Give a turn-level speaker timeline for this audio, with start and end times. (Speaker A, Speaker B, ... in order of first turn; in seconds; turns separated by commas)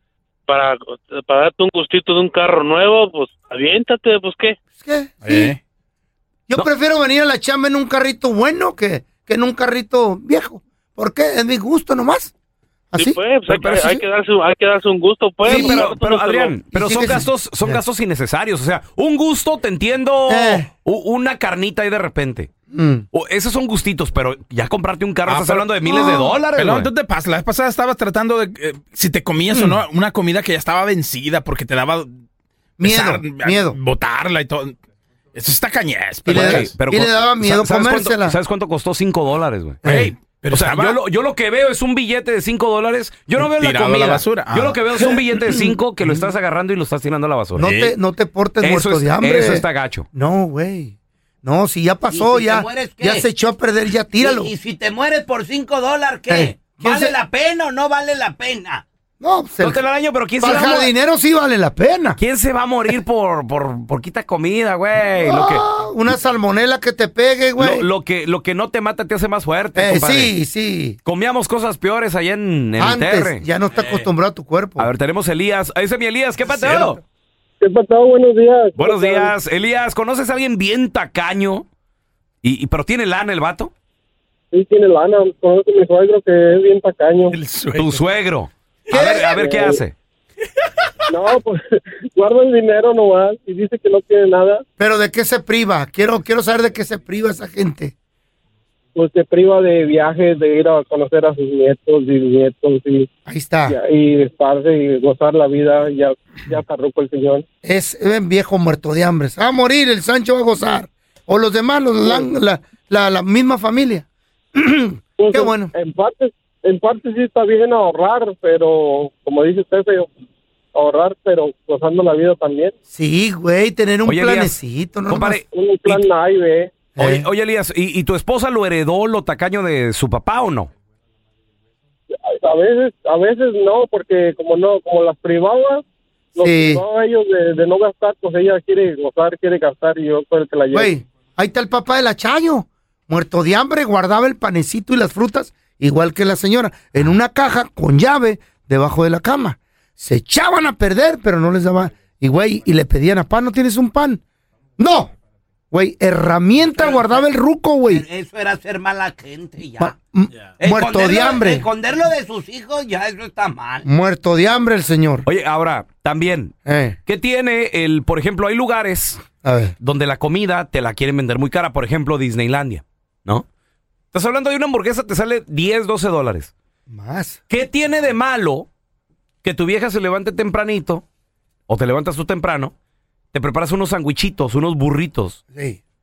Speaker A: 0.5-4.6, Speaker B: 4.8-5.5, Speaker C: 5.2-5.6, Speaker B: 6.5-12.3, Speaker B: 12.9-13.2, Speaker A: 12.9-16.6, Speaker D: 13.5-14.0, Speaker B: 15.4-15.9, Speaker D: 15.4-22.5, Speaker B: 16.7-17.8, Speaker B: 20.3-20.7, Speaker B: 22.7-23.1, Speaker D: 23.1-26.9, Speaker C: 25.3-32.1, Speaker B: 25.8-26.3, Speaker B: 29.5-29.8, Speaker B: 32.8-33.8, Speaker C: 32.8-34.8, Speaker C: 35.3-36.7, Speaker B: 36.2-38.4, Speaker D: 36.3-47.8, Speaker C: 39.8-41.0, Speaker B: 39.8-40.1, Speaker C: 43.4-45.2, Speaker B: 45.5-46.2, Speaker B: 47.5-54.5, Speaker C: 47.6-47.9, Speaker D: 48.6-50.1, Speaker E: 52.1-53.2, Speaker E: 54.2-58.8, Speaker B: 56.3-57.1, Speaker B: 59.2-59.8, Speaker D: 59.6-60.9, Speaker B: 60.4-62.2, Speaker D: 62.2-65.6, Speaker B: 65.2-67.8, Speaker D: 67.6-70.3, Speaker B: 69.8-71.0, Speaker D: 71.0-73.4, Speaker B: 72.8-74.9, Speaker C: 73.7-74.1, Speaker D: 74.8-77.0, Speaker B: 76.5-76.9, Speaker F: 77.6-79.3, Speaker D: 78.8-81.7, Speaker D: 82.4-83.7, Speaker F: 84.5-87.3, Speaker C: 87.3-88.0, Speaker D: 87.8-89.9, Speaker B: 88.9-89.6, Speaker F: 89.4-89.8, Speaker F: 91.1-91.6, Speaker F: 92.1-94.6, Speaker B: 94.8-97.9, Speaker F: 98.9-103.1, Speaker B: 103.2-103.8, Speaker F: 103.7-107.4, Speaker B: 107.6-115.7, Speaker F: 112.0-112.3, Speaker F: 115.2-120.1, Speaker F: 120.7-122.7, Speaker B: 122.9-125.4, Speaker D: 124.0-124.5, Speaker D: 125.1-126.0, Speaker F: 125.5-126.7, Speaker B: 127.0-127.3, Speaker D: 127.0-130.7, Speaker F: 132.2-135.8, Speaker F: 136.3-140.9, Speaker B: 136.4-136.8, Speaker B: 140.7-154.2, Speaker B: 154.8-155.1, Speaker B: 155.7-158.1, Speaker E: 156.8-157.2, Speaker E: 157.9-159.9, Speaker B: 159.8-161.7, Speaker E: 160.6-163.8, Speaker B: 163.8-165.2, Speaker D: 165.2-166.5, Speaker B: 166.7-167.0, Speaker D: 167.1-169.2, Speaker B: 169.4-169.7, Speaker D: 169.8-173.4, Speaker D: 174.1-176.5, Speaker B: 176.9-177.4, Speaker D: 177.5-178.7, Speaker D: 179.4-181.0, Speaker D: 181.7-182.7, Speaker D: 183.3-185.4, Speaker B: 185.5-185.8